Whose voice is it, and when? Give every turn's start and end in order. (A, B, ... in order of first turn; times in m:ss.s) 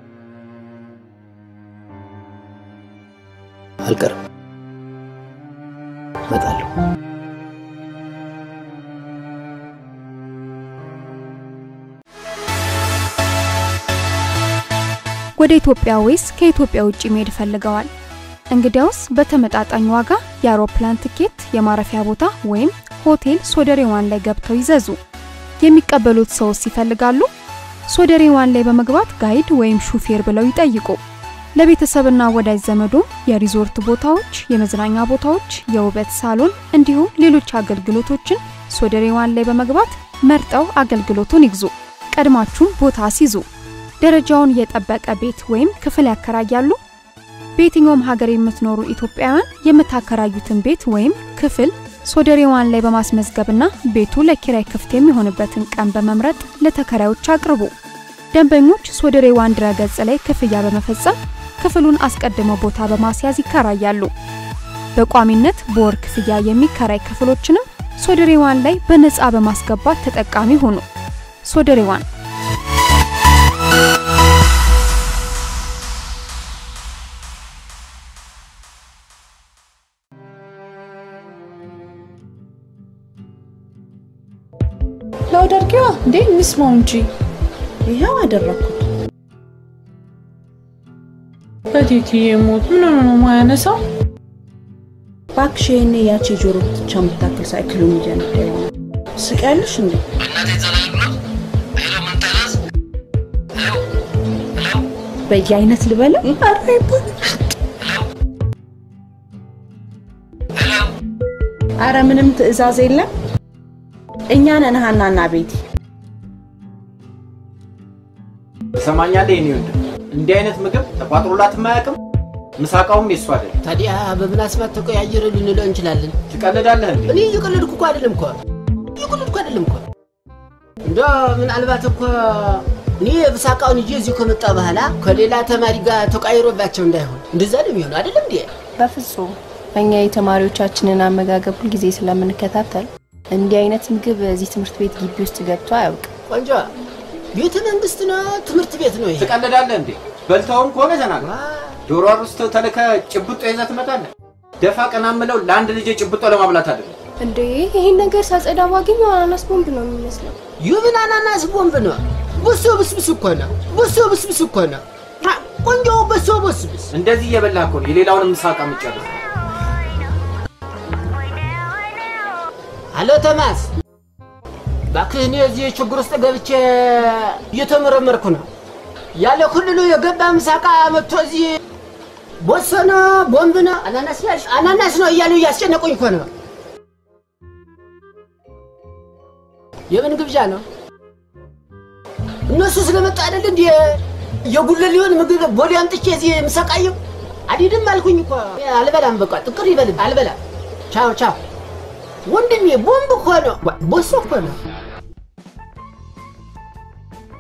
0:03.8-0:04.2 A
0:06.3-0:06.7 A
0:15.4-0:17.9 B
0:18.5-0:25.0 B
0:25.6-0:27.3 B
0:27.9-0:31.0 B
0:31.6-0:43.4 B
0:44.0-0:46.8 B
0:47.6-0:57.7 B
0:58.3-1:04.1 B
1:05.0-1:10.8 B
1:11.4-1:12.0 B
1:25.3-1:27.1 C
1:27.8-1:28.9 D
1:31.7-1:33.8 C
1:35.4-1:40.1 D
1:40.4-1:41.1 A
1:41.8-1:42.5 A
1:45.3-1:46.4 D
1:51.8-1:53.1 D
1:54.3-1:55.6 D
1:58.8-2:02.0 E
2:02.6-2:03.6 E
2:03.6-2:06.2 F
2:06.3-2:07.2 E
2:07.1-2:08.4 F
2:09.0-2:09.8 F
2:10.8-2:18.5 F
2:18.8-2:26.1 G
2:26.3-2:26.7 F
2:27.3-2:29.4 F
2:29.2-2:31.3 E
2:31.2-2:31.8 F
2:31.9-2:34.1 E
2:34.6-2:36.9 E
2:37.2-2:40.3 H
2:40.6-2:46.9 F
2:46.9-2:49.1 E
2:52.9-2:53.7 F
2:54.9-2:58.5 F
2:59.2-3:01.6 F
3:02.4-3:06.3 F
3:09.9-3:10.6 F
3:12.5-3:17.0 F
3:17.5-3:20.4 F
3:20.9-3:21.4 F
3:22.3-3:24.6 F